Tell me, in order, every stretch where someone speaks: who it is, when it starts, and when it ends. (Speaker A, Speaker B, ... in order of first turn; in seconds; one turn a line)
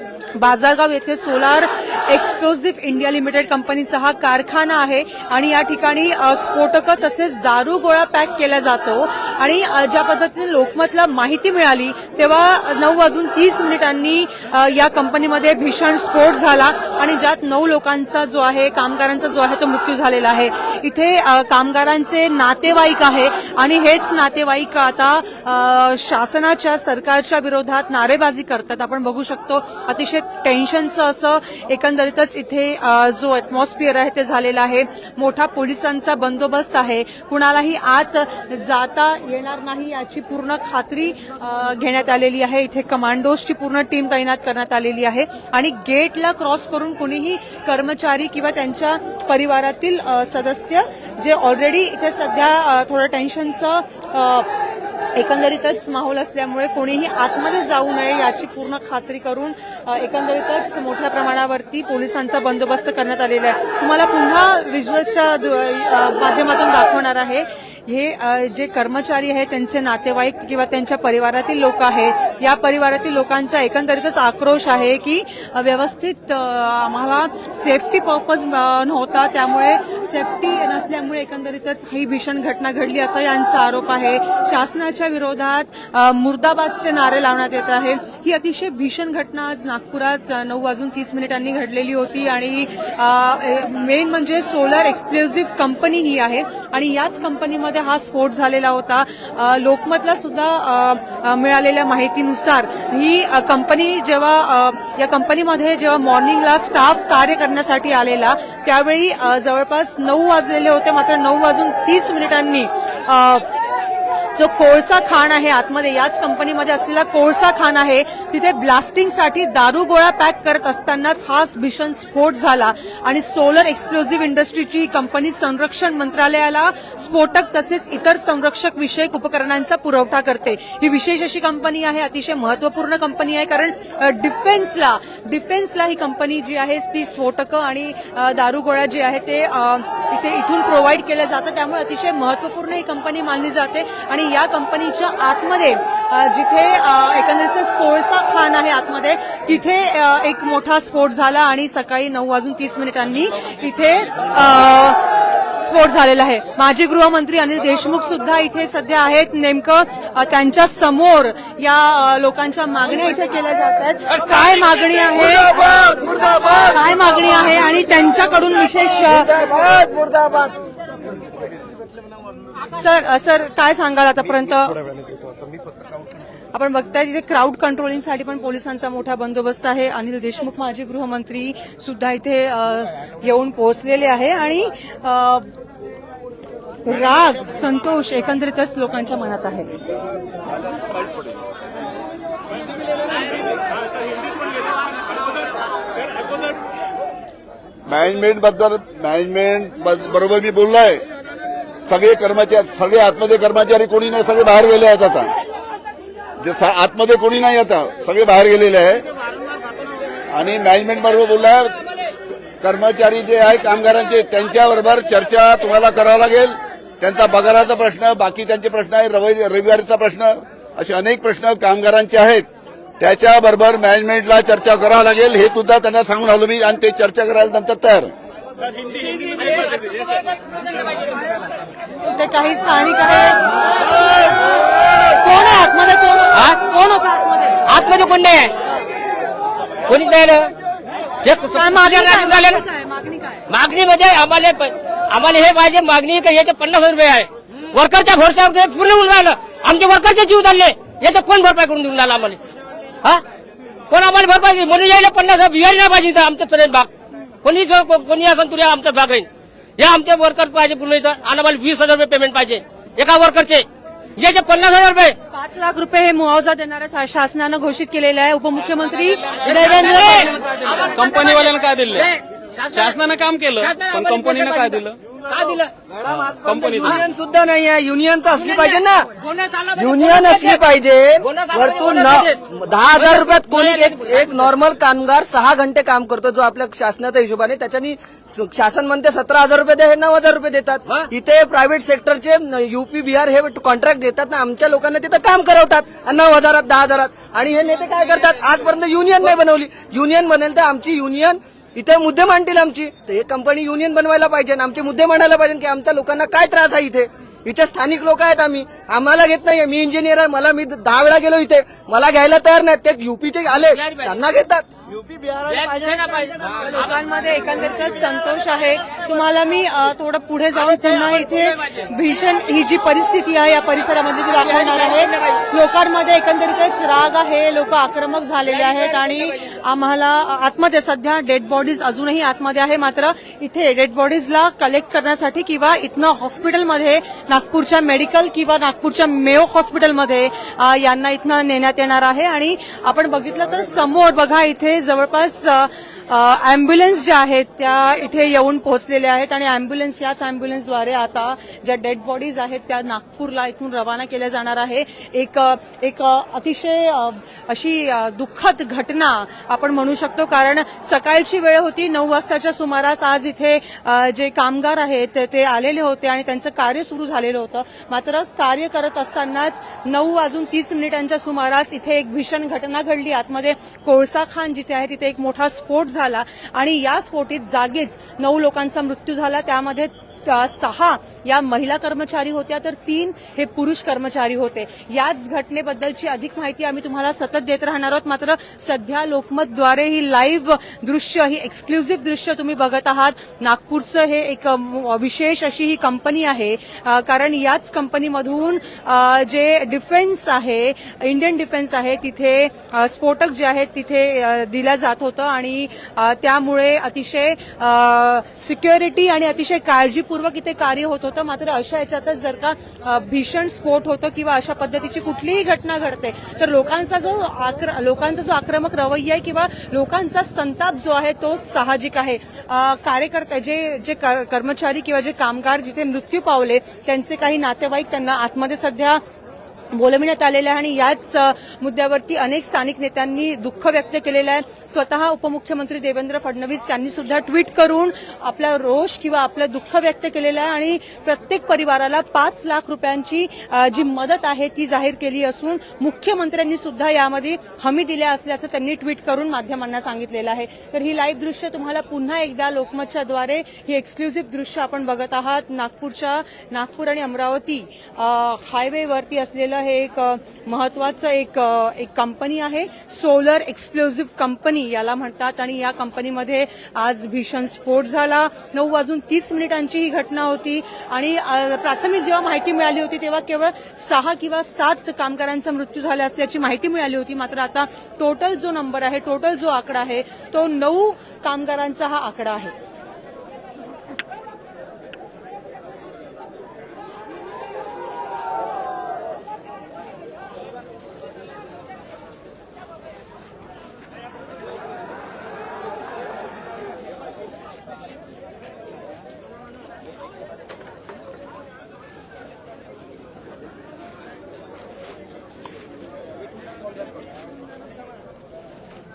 Speaker A: 0.4-54.5
Speaker A: 55.1-113.5
Speaker A: 114.3-155.0
Speaker A: 155.6-165.6
Speaker B: 165.3-166.8
Speaker A: 166.5-169.3
Speaker B: 169.1-170.6
Speaker A: 172.7-174.8
Speaker A: 176.5-185.5
Speaker A: 186.8-189.7
Speaker C: 190.6-191.4
Speaker C: 197.9-201.0
Speaker C: 201.9-205.3
Speaker C: 206.4-209.1
Speaker C: 210.3-211.8
Speaker C: 212.6-222.5
Speaker C: 223.0-228.1
Speaker D: 229.8-230.9
Speaker A: 232.1-233.4
Speaker A: 235.1-237.6
Speaker D: 237.6-238.6
Speaker D: 239.9-240.5
Speaker D: 241.2-242.6
Speaker A: 241.5-243.5
Speaker D: 243.5-252.4
Speaker D: 253.9-256.9
Speaker D: 257.4-263.7
Speaker D: 264.2-265.2
Speaker A: 265.3-270.4
Speaker D: 269.5-271.4
Speaker E: 270.4-272.1
Speaker D: 272.0-273.0
Speaker E: 272.7-275.0
Speaker D: 273.6-275.7
Speaker B: 276.0-279.1
Speaker E: 276.1-277.0
Speaker D: 278.5-280.6
Speaker B: 279.8-314.8
Speaker D: 281.2-282.4
Speaker D: 282.9-284.5
Speaker D: 315.5-316.5
Speaker B: 315.5-315.8
Speaker A: 316.4-429.0
Speaker A: 429.7-482.6